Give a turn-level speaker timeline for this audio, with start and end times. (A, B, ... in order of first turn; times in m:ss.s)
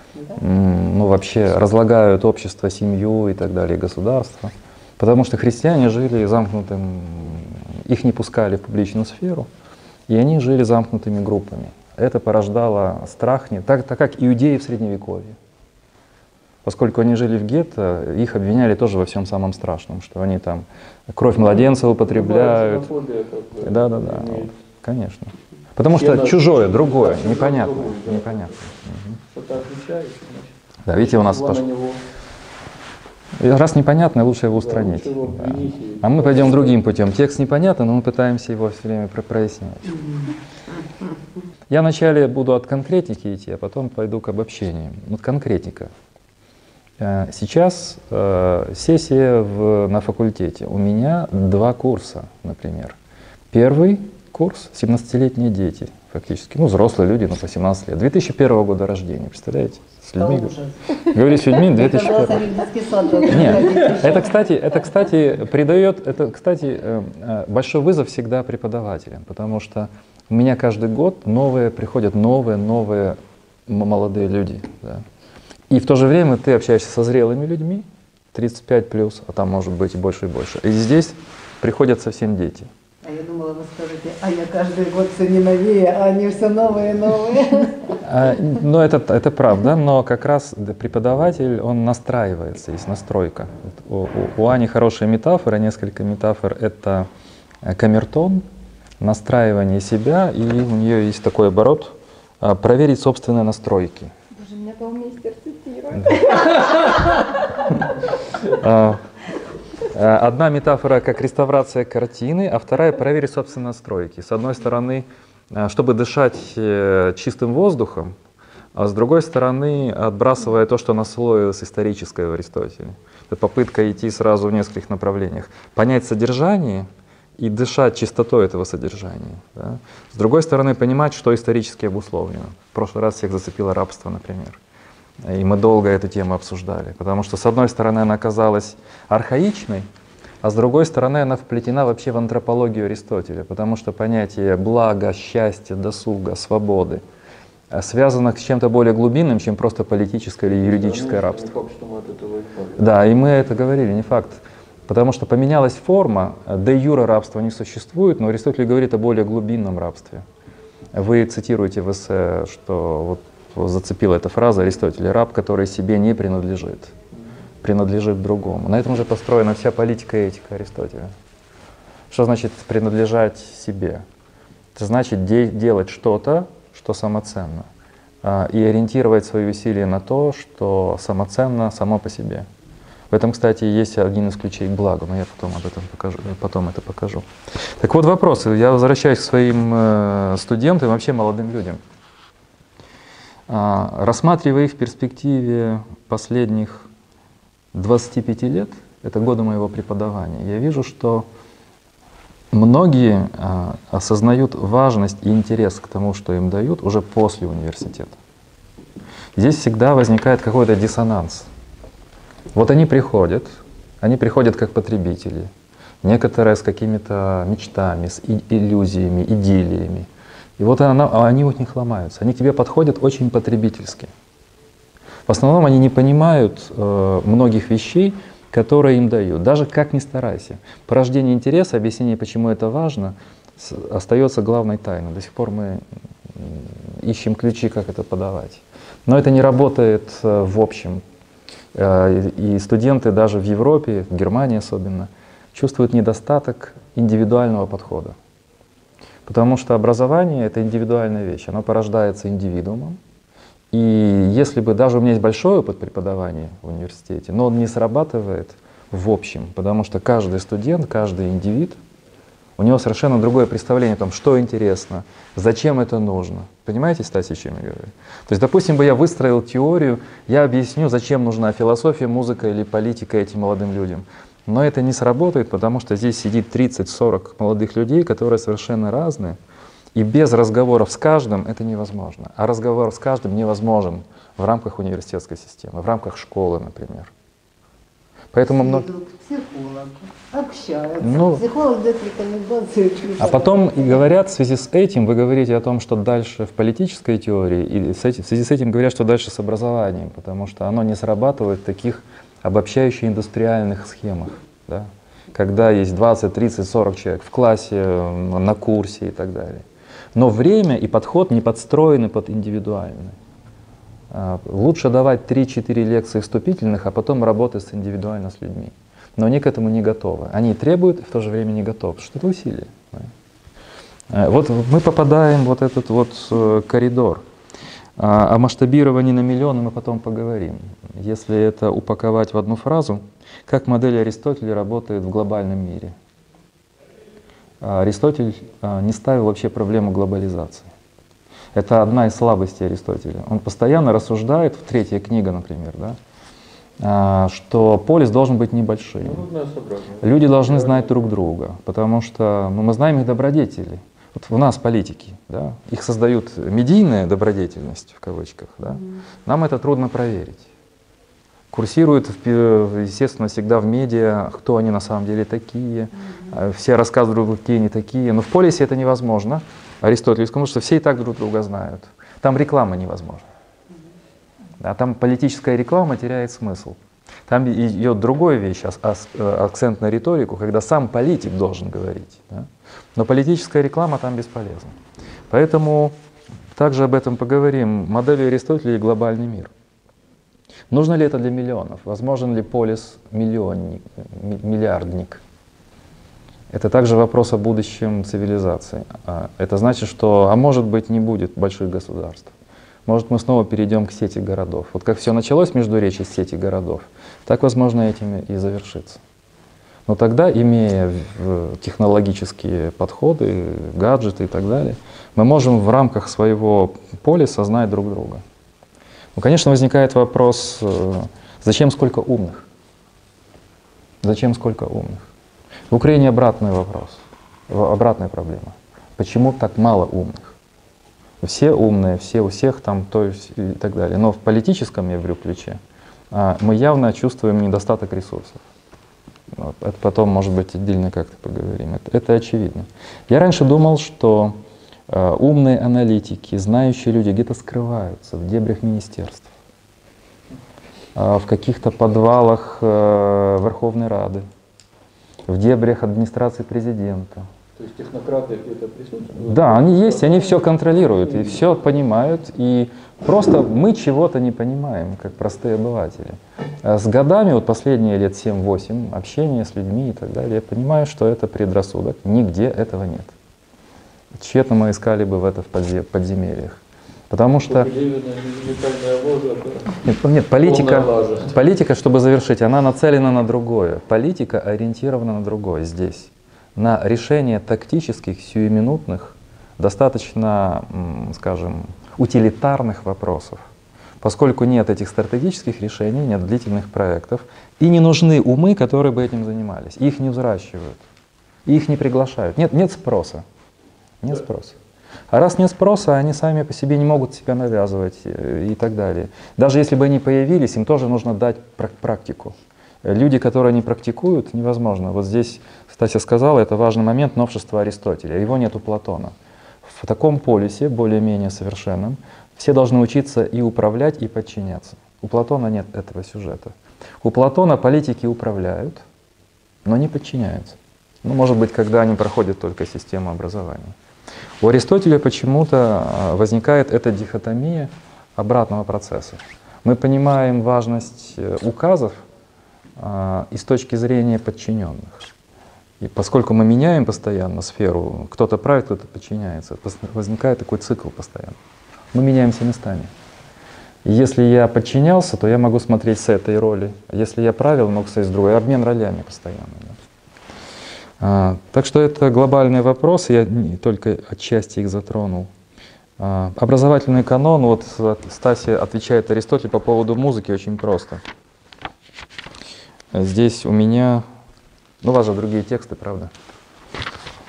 0:00.4-0:09.5 A
0:10.1-0:15.4 A
0:16.6-0:22.9 A
0:22.0-0:24.5 B
0:23.6-0:29.2 A
0:25.9-0:28.6 B
0:29.3-0:32.0 B
0:30.8-0:31.6 A
0:33.4-0:40.1 A
0:34.5-0:36.8 B
0:41.7-0:45.9 A
0:47.0-0:53.0 A
0:53.5-1:02.5 A
1:00.2-1:04.4 C
1:03.3-1:13.2 A
1:13.7-1:15.0 A
1:15.7-1:22.7 A
1:23.0-1:28.0 C
1:28.0-1:37.1 A
1:37.6-1:38.4 A
1:39.0-1:44.1 A
1:44.3-1:47.9 D
1:48.4-1:49.0 A
1:49.9-1:58.1 A
1:58.7-2:06.9 A
2:07.4-2:14.6 A
2:15.2-2:19.9 A
2:20.4-2:27.0 A
2:27.7-2:31.5 A
2:30.6-2:32.8 B
2:32.8-2:40.2 A
2:40.9-2:46.9 A
2:47.6-2:51.1 A
2:52.1-2:54.0 A
2:54.8-2:57.7 A
2:58.2-3:02.5 A
3:03.1-3:07.2 A
3:07.8-3:11.8 A
3:13.5-3:16.9 A
3:17.7-3:21.3 A
3:22.5-3:28.1 A
3:29.4-3:31.5 A
3:32.5-3:35.5 A
3:36.0-3:44.1 A
3:45.3-4:01.0 A
4:01.7-4:08.2 A
4:09.3-4:13.0 A
4:13.7-4:21.8 A
4:22.6-4:39.4 A
4:40.0-4:47.1 A
4:48.3-4:48.9 A
4:48.5-4:54.0 C
4:51.0-4:51.4 A
4:53.2-5:13.2 A
5:14.1-5:23.1 A
5:24.1-5:27.2 A
5:28.0-5:35.9 A
5:37.6-5:40.7 A
5:41.5-5:46.0 A
5:46.8-5:49.2 A
5:49.0-5:51.1 B
5:50.0-6:00.5 A
6:01.5-6:13.2 A
6:14.6-6:24.7 A
6:25.3-6:26.0 A
6:26.6-6:29.5 A
6:30.7-6:35.2 A
6:36.5-6:42.3 A
6:42.9-6:49.0 A
6:49.9-6:58.2 A
6:59.2-7:02.4 A
7:04.0-7:05.1 A
7:05.7-7:10.3 A
7:11.2-7:15.6 A
7:16.1-7:18.4 A
7:19.3-7:24.4 A
7:24.9-7:29.3 A
7:31.0-7:34.2 A
7:35.3-7:37.3 A
7:37.6-7:40.5 B
7:39.2-7:53.1 A
7:54.2-7:57.7 A
7:57.5-7:59.8 B
7:59.8-8:13.4 A
8:00.4-8:01.4 B
8:14.0-8:20.8 A
8:21.5-8:23.2 A
8:24.0-8:24.6 A
8:25.1-8:48.8 A
8:49.6-8:53.8 A
8:54.4-9:02.0 A
9:02.8-9:05.1 A
9:05.8-9:11.4 A
9:11.9-9:12.9 A
9:13.8-9:19.8 A
9:21.0-9:25.3 A
9:26.0-9:31.0 A
9:32.9-9:34.0 A
9:34.8-9:36.1 A